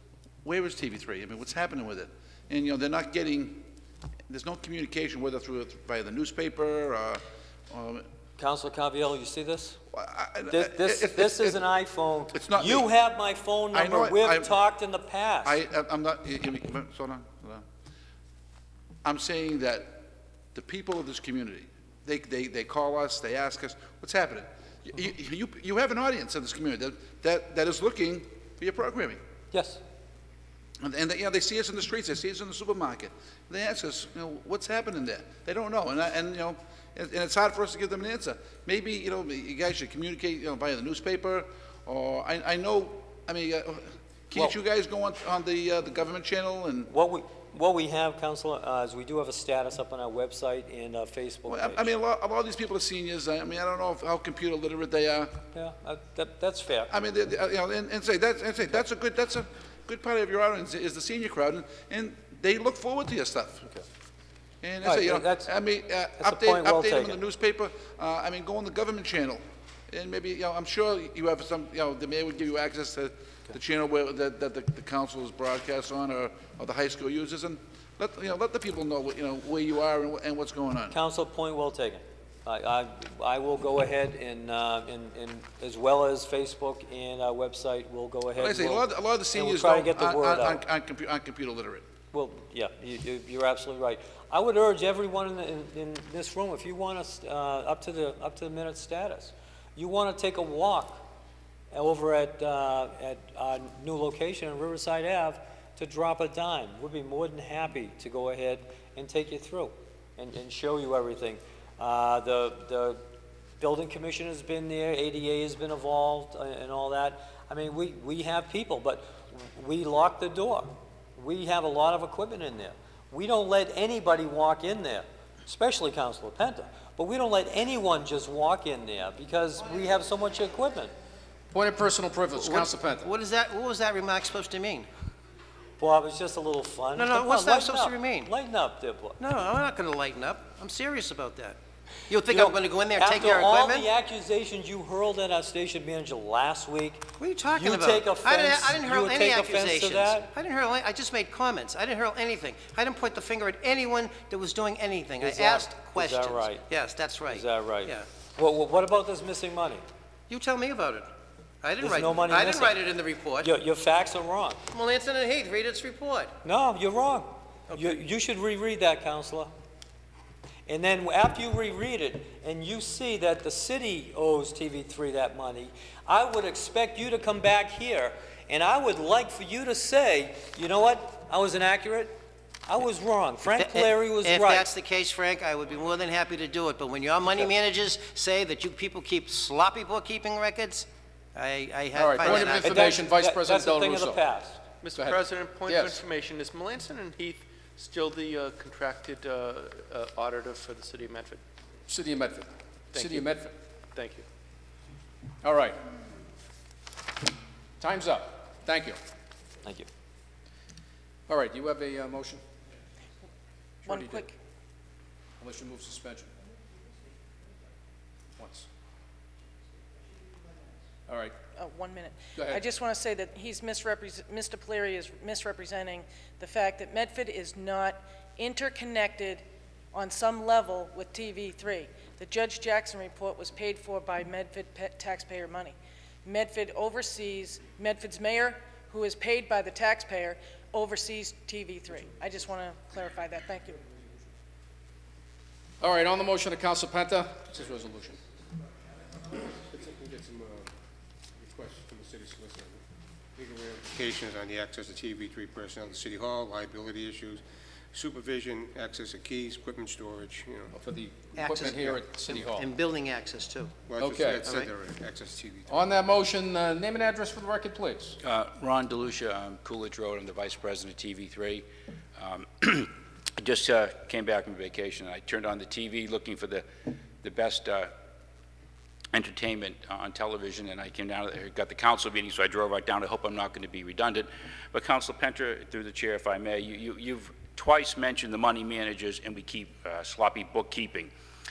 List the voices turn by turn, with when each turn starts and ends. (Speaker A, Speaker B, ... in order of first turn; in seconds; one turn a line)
Speaker A: 0.5-3.6
Speaker A: 4.3-8.0
Speaker B: 8.4-9.8
Speaker A: 9.9-11.6
Speaker B: 10.5-15.6
Speaker A: 12.3-12.9
Speaker A: 13.7-14.6
Speaker A: 15.4-17.6
Speaker A: 19.1-20.0
Speaker A: 20.6-29.2
Speaker B: 29.5-29.8
Speaker A: 30.8-46.9
Speaker B: 46.9-51.9
Speaker A: 51.5-55.4
Speaker B: 55.5-56.9
Speaker A: 56.9-63.7
Speaker A: 64.6-81.0
Speaker B: 64.8-65.5
Speaker B: 66.2-67.2
Speaker B: 80.9-90.6
Speaker A: 88.4-91.8
Speaker B: 92.1-101.0
Speaker B: 101.7-113.0
Speaker B: 113.6-130.9
Speaker C: 131.5-133.1
Speaker D: 132.3-134.9
Speaker B: 135.8-139.2
Speaker D: 137.0-138.3
Speaker D: 139.2-143.9
Speaker B: 142.3-150.3
Speaker D: 147.2-158.1
Speaker B: 155.2-156.7
Speaker B: 157.3-159.8
Speaker D: 160.3-161.1
Speaker D: 161.6-163.5
Speaker B: 161.8-162.8
Speaker B: 163.4-164.6
Speaker D: 164.7-166.3
Speaker B: 166.4-169.5
Speaker D: 167.7-168.0
Speaker B: 170.7-184.7
Speaker D: 183.5-193.0
Speaker C: 191.9-194.2
Speaker B: 192.6-194.6
Speaker E: 194.8-201.4
Speaker C: 194.9-196.0
Speaker C: 201.9-203.6
Speaker E: 202.9-203.3
Speaker E: 203.9-204.2
Speaker C: 205.4-205.8
Speaker C: 207.8-209.0
Speaker C: 211.3-212.4
Speaker C: 213.8-214.3
Speaker F: 213.9-214.3
Speaker C: 215.4-216.3
Speaker C: 218.4-218.7
Speaker C: 221.1-221.4
Speaker F: 221.6-229.4
Speaker C: 222.3-222.6
Speaker F: 229.9-243.8
Speaker C: 245.8-248.2
Speaker G: 249.4-250.7
Speaker G: 251.3-252.8
Speaker G: 253.4-257.4
Speaker G: 257.9-260.7
Speaker C: 260.7-262.7
Speaker D: 261.4-263.8
Speaker G: 263.9-266.0
Speaker C: 264.0-264.6
Speaker C: 265.7-268.2
Speaker H: 268.2-271.6
Speaker H: 272.2-277.9
Speaker H: 279.1-291.1